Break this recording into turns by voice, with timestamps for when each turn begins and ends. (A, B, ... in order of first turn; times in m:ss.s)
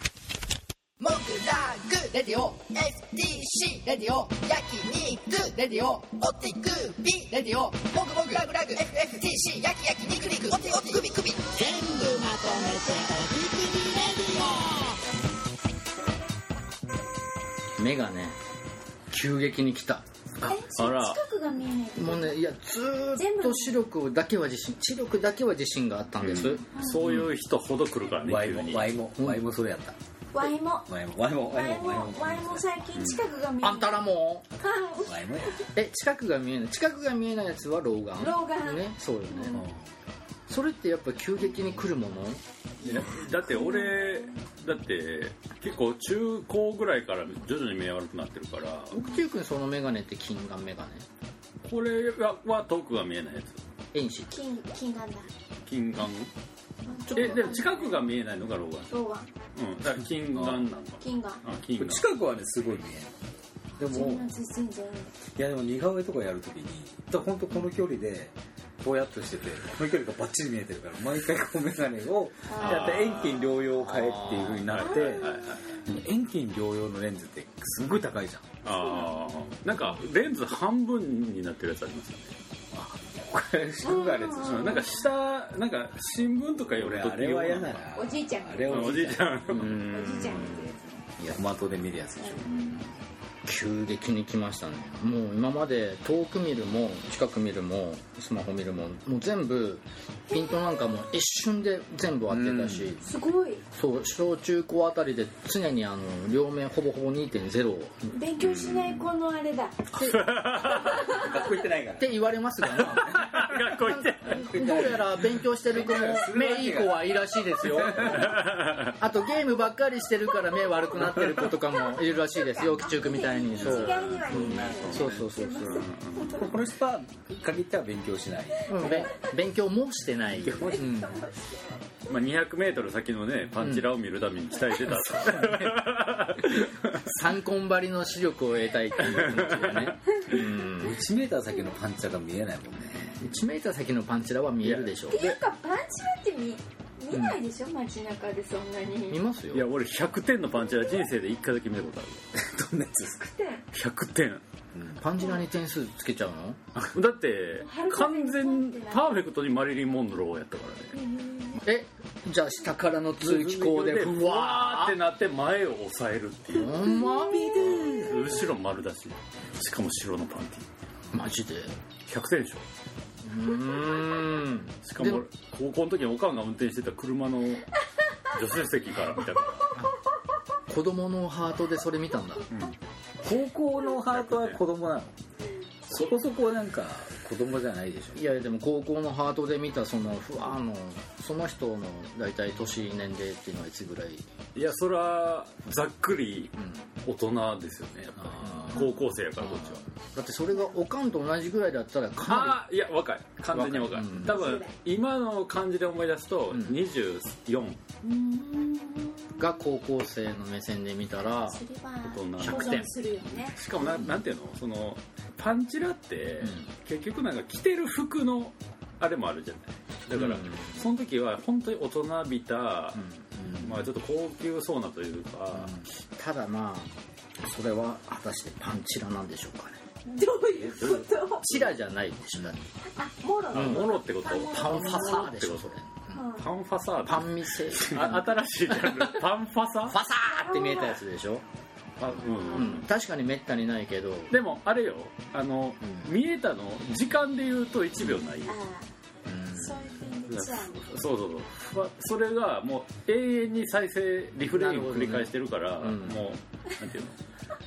0:01.0-0:15.0 A
0:17.8-0:18.4 B
0:19.1-0:20.0 B
0:20.4-0:22.4 C
0:20.4-0:21.2 D
0:22.0-0:27.3 B
0:23.1-0:23.8 C
0:26.2-0:29.0 D
0:26.8-0:27.0 C
0:28.2-0:29.9 E
0:30.3-0:30.9 C
0:30.8-0:32.7 E
0:31.4-0:34.0 C
0:33.6-0:34.4 B
0:34.6-0:35.6 C
0:35.0-0:35.6 E
0:35.7-0:39.7 B
0:38.2-0:39.6 C
0:40.5-0:42.4 B
0:42.8-0:49.0 D
0:42.9-0:44.3 C
0:48.9-0:51.0 B
0:51.6-0:53.6 D
0:53.9-0:54.3 B
0:54.3-0:55.3 C
0:55.6-0:56.3 D
0:56.8-0:58.1 C
0:57.1-0:57.5 B
0:57.1-0:59.0 D
0:58.9-0:59.3 C
0:59.5-1:02.1 D
1:00.3-1:00.6 E
1:01.0-1:01.4 C
1:01.7-1:03.1 E
1:03.8-1:04.3 E
1:03.9-1:05.1 C
1:05.3-1:15.3 E
1:12.5-1:13.0 C
1:12.6-1:13.5 D
1:13.7-1:14.6 B
1:14.6-1:15.6 D
1:14.7-1:15.6 C
1:15.8-1:18.5 E
1:18.6-1:22.3 D
1:18.7-1:19.3 C
1:22.7-1:24.8 E
1:23.8-1:24.9 C
1:24.4-1:27.8 D
1:26.8-1:30.0 E
1:28.0-1:31.0 C
1:28.7-1:30.5 D
1:29.5-1:29.8 B
1:31.2-1:32.7 E
1:32.2-1:32.5 C
1:33.4-1:43.0 B
1:40.3-1:40.7 C
1:42.3-1:42.9 E
1:43.0-1:43.6 C
1:43.7-1:48.1 B
1:48.1-1:50.0 C
1:48.4-1:49.1 D
1:49.9-1:50.3 B
1:50.0-1:51.2 D
1:50.6-1:51.3 C
1:50.8-1:52.2 E
1:52.0-2:05.9 B
1:52.7-1:54.7 D
1:54.3-1:58.4 E
1:58.0-1:58.9 D
2:02.2-2:06.5 C
2:03.6-2:06.5 D
2:06.2-2:09.1 E
2:08.6-2:09.3 C
2:08.7-2:11.2 B
2:10.4-2:10.9 E
2:10.5-2:11.8 C
2:12.1-2:17.0 D
2:13.6-2:13.9 B
2:14.8-2:15.8 E
2:17.0-2:21.0 B
2:19.0-2:20.2 D
2:20.8-2:23.2 E
2:23.2-2:25.3 B
2:24.6-2:24.9 D
2:25.1-2:29.2 C
2:27.1-2:27.4 B
2:29.1-2:29.7 B
2:29.5-2:32.2 D
2:32.3-2:33.3 E
2:33.2-2:33.6 C
2:33.7-2:34.4 D
2:34.7-2:35.0 E
2:35.0-2:36.6 B
2:36.9-2:41.0 D
2:37.6-2:39.2 C
2:40.9-2:41.6 C
2:41.6-2:45.0 B
2:43.2-2:46.9 D
2:46.5-2:48.0 B
2:46.6-2:48.2 C
2:47.6-2:50.7 D
2:51.1-2:51.7 B
2:52.1-2:52.6 D
2:53.2-2:55.2 B
2:54.8-2:57.7 D
2:58.3-2:59.8 D
3:00.7-3:02.5 B
3:03.2-3:05.1 E
3:04.1-3:04.6 D
3:05.9-3:08.2 E
3:08.1-3:14.3 B
3:14.5-3:19.8 D
3:18.4-3:22.6 B
3:22.2-3:27.8 D
3:23.5-3:24.4 B
3:24.2-3:24.7 C
3:26.5-3:26.8 B
3:28.0-3:29.4 C
3:29.4-3:31.6 B
3:31.4-3:33.6 C
3:32.0-3:32.9 D
3:32.4-3:32.9 B
3:33.5-3:45.8 D
3:33.8-3:34.2 B
3:40.1-3:40.8 B
3:43.0-3:43.6 B
3:45.6-3:49.8 B
3:50.1-3:51.6 C
3:51.4-3:52.6 B
3:53.0-3:55.2 C
3:53.5-3:55.7 D
3:53.5-3:56.2 B
3:56.1-3:56.4 C
3:56.3-4:00.0 D
3:57.0-3:58.3 B
3:59.9-4:01.4 B
4:00.2-4:01.0 C
4:02.0-4:02.8 D
4:02.2-4:02.7 C
4:02.5-4:04.3 B
4:04.3-4:08.6 D
4:08.4-4:08.9 C
4:09.3-4:09.8 B
4:09.5-4:10.8 C
4:10.3-4:17.1 D
4:14.5-4:16.2 B